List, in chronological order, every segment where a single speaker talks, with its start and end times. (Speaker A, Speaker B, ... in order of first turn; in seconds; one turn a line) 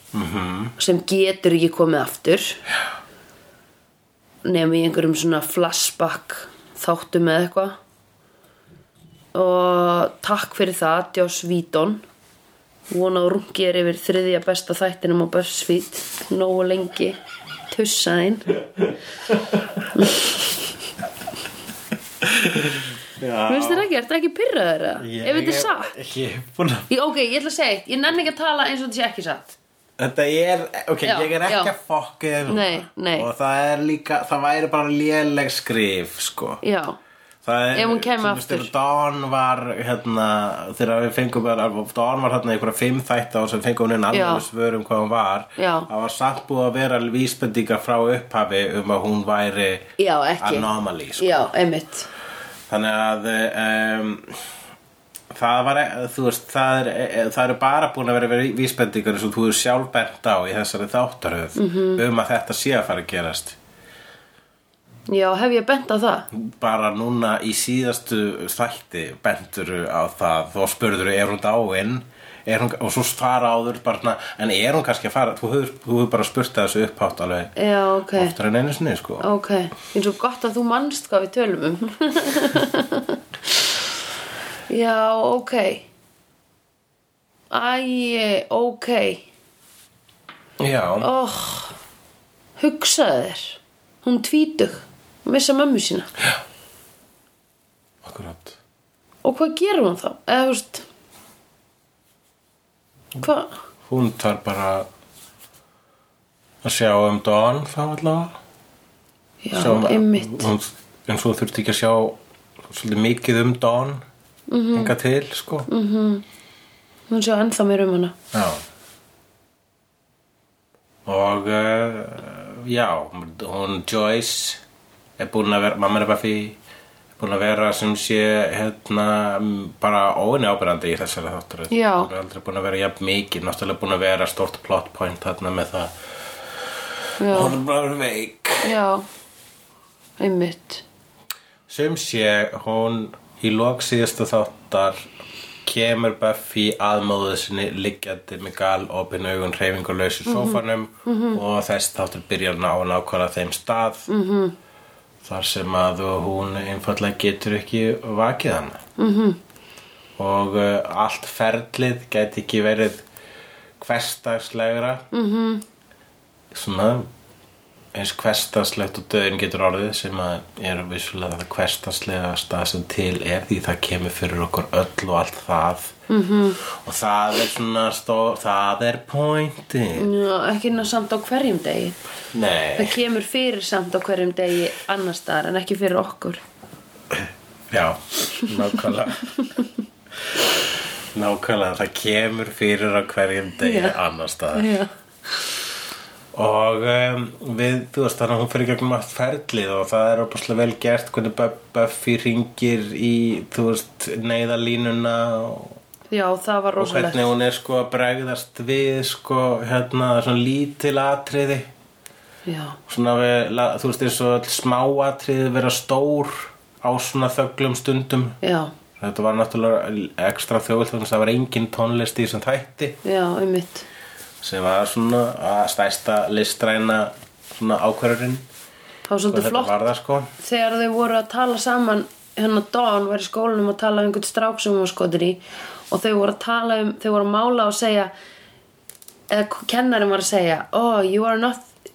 Speaker A: 0.1-0.8
Speaker B: 0.8-2.6
Speaker B: 4.5-7.8
Speaker B: 9.3-12.0
Speaker B: 12.9-17.2
Speaker B: 17.7-18.5
Speaker A: 19.3-20.0
Speaker B: 19.9-20.6
Speaker A: 22.2-23.9
Speaker B: 23.5-25.9
Speaker A: 25.0-26.9
Speaker B: 26.9-29.6
Speaker A: 30.0-36.6
Speaker B: 31.0-31.7
Speaker B: 32.5-33.3
Speaker B: 36.6-37.0
Speaker A: 37.4-51.5
Speaker B: 37.7-38.7
Speaker B: 44.1-44.5
Speaker B: 45.6-45.9
Speaker B: 50.0-52.1
Speaker A: 52.7-54.4
Speaker A: 55.3-63.6
Speaker B: 61.6-62.0
Speaker B: 65.1-66.3
Speaker A: 66.3-77.5
Speaker B: 77.6-78.4
Speaker A: 78.1-79.3
Speaker B: 79.2-83.9
Speaker B: 84.7-85.9
Speaker B: 87.5-89.3
Speaker A: 90.6-91.1
Speaker B: 91.0-91.8
Speaker B: 92.6-96.1
Speaker A: 98.0-98.6
Speaker B: 99.2-100.8
Speaker B: 103.2-103.5
Speaker A: 103.9-104.9
Speaker A: 106.6-108.4
Speaker B: 109.4-110.5
Speaker A: 109.5-114.0
Speaker B: 114.5-115.0
Speaker A: 114.7-115.7
Speaker B: 115.7-116.2
Speaker B: 117.1-118.2
Speaker A: 118.3-118.6
Speaker A: 121.1-124.6
Speaker A: 125.2-126.6
Speaker A: 127.2-135.9
Speaker B: 131.7-132.1
Speaker B: 137.2-137.6
Speaker A: 137.3-138.8
Speaker B: 138.6-139.1
Speaker B: 140.2-140.8
Speaker A: 141.7-145.0
Speaker A: 145.6-154.1
Speaker B: 150.3-151.4
Speaker B: 154.1-154.6
Speaker A: 155.2-158.8
Speaker B: 159.0-159.4
Speaker A: 160.2-163.1
Speaker A: 163.8-165.1
Speaker B: 165.1-165.6
Speaker A: 166.5-167.1
Speaker A: 167.9-175.9
Speaker B: 176.1-176.6
Speaker A: 176.7-180.1
Speaker B: 179.9-182.0
Speaker A: 182.3-183.0
Speaker B: 182.8-186.4
Speaker A: 187.1-189.3
Speaker B: 188.4-188.8
Speaker B: 189.4-189.7
Speaker A: 191.1-194.7
Speaker B: 193.6-194.0
Speaker B: 194.5-194.9
Speaker A: 196.3-205.8
Speaker B: 206.1-207.3
Speaker A: 206.8-211.7
Speaker B: 212.5-212.8
Speaker A: 212.9-218.4
Speaker B: 218.4-218.7
Speaker A: 219.0-223.0
Speaker B: 223.0-223.9
Speaker A: 224.4-228.4
Speaker B: 229.1-229.8
Speaker A: 229.3-230.3
Speaker B: 230.4-238.1
Speaker B: 239.3-241.7